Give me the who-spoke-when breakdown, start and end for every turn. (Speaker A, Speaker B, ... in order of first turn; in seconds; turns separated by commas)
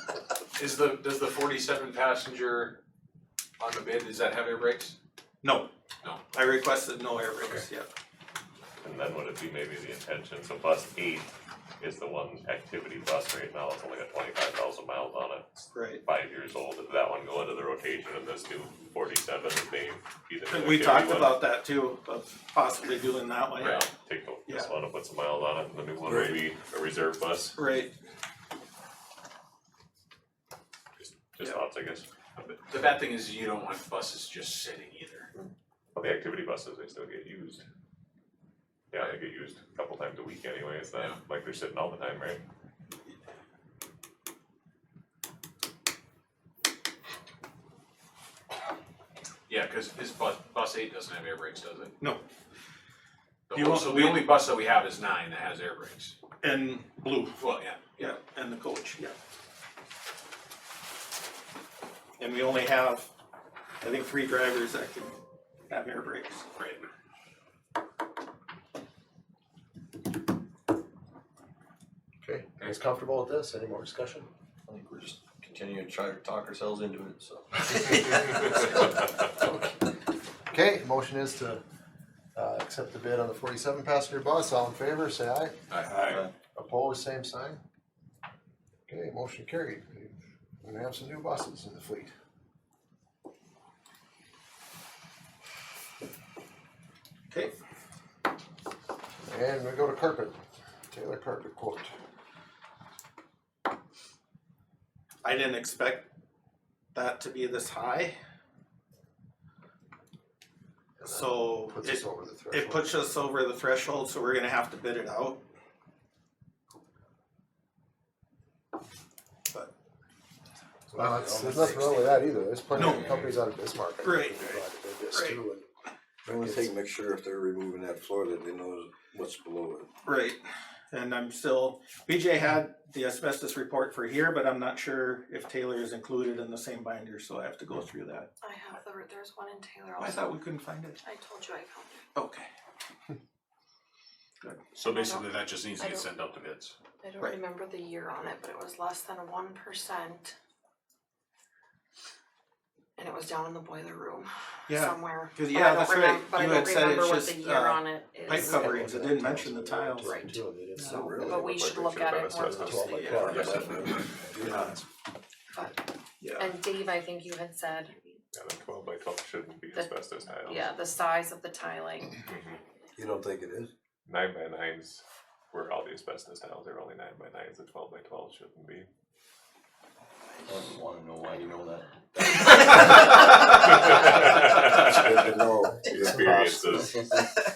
Speaker A: 0.6-2.8, Speaker A: 3.6-4.9, Speaker B: 5.4-5.7, Speaker B: 6.3-7.9, Speaker C: 8.8-21.5, Speaker B: 15.7-16.0, Speaker B: 20.5-23.8, Speaker C: 23.6-27.6, Speaker B: 24.4-24.7, Speaker D: 26.0-26.4, Speaker B: 27.5-27.9, Speaker C: 31.0-32.0, Speaker A: 32.4-35.3, Speaker C: 35.9-37.6, Speaker C: 38.9-42.4, Speaker A: 49.5-52.0, Speaker A: 53.5-56.1, Speaker B: 53.5-54.3, Speaker B: 56.4-57.4, Speaker A: 57.4-58.1, Speaker B: 58.0-59.1, Speaker B: 62.2-63.1, Speaker B: 63.8-65.2, Speaker B: 65.7-66.5, Speaker A: 66.6-66.8, Speaker E: 72.2-74.3, Speaker F: 74.7-78.2, Speaker E: 79.4-79.7, Speaker E: 80.5-81.6, Speaker E: 82.3-85.5, Speaker A: 85.7-86.2, Speaker F: 85.8-86.3, Speaker E: 86.5-87.6, Speaker E: 88.9-92.1, Speaker B: 97.3-97.5, Speaker E: 99.3-100.4, Speaker E: 100.9-101.9, Speaker B: 105.2-106.1, Speaker B: 106.9-108.2, Speaker E: 111.0-113.0, Speaker B: 111.0-115.4, Speaker D: 120.9-122.0, Speaker E: 120.9-125.7, Speaker B: 122.8-123.1, Speaker F: 122.9-123.2, Speaker B: 124.0-125.4, Speaker E: 126.2-126.7, Speaker D: 126.3-129.9, Speaker B: 130.0-138.3, Speaker G: 138.4-140.3, Speaker B: 140.0-141.0, Speaker G: 141.0-142.1, Speaker B: 142.1-142.5, Speaker A: 144.7-146.8, Speaker G: 144.8-146.1, Speaker G: 147.0-150.3, Speaker G: 153.0-158.9, Speaker B: 154.7-160.2, Speaker E: 158.3-161.0, Speaker G: 160.0-163.9, Speaker B: 160.7-161.1, Speaker D: 160.9-161.7, Speaker C: 161.2-163.7, Speaker E: 162.6-164.1, Speaker B: 162.9-163.6, Speaker D: 163.4-164.7, Speaker B: 164.4-164.7, Speaker G: 165.5-165.8, Speaker B: 166.2-166.5, Speaker G: 166.4-168.2, Speaker C: 168.3-170.7, Speaker G: 169.7-172.2, Speaker C: 172.2-172.6, Speaker D: 172.9-173.7, Speaker C: 174.1-178.9, Speaker F: 180.5-182.3, Speaker C: 182.4-187.0, Speaker D: 184.6-186.5, Speaker E: 185.8-186.9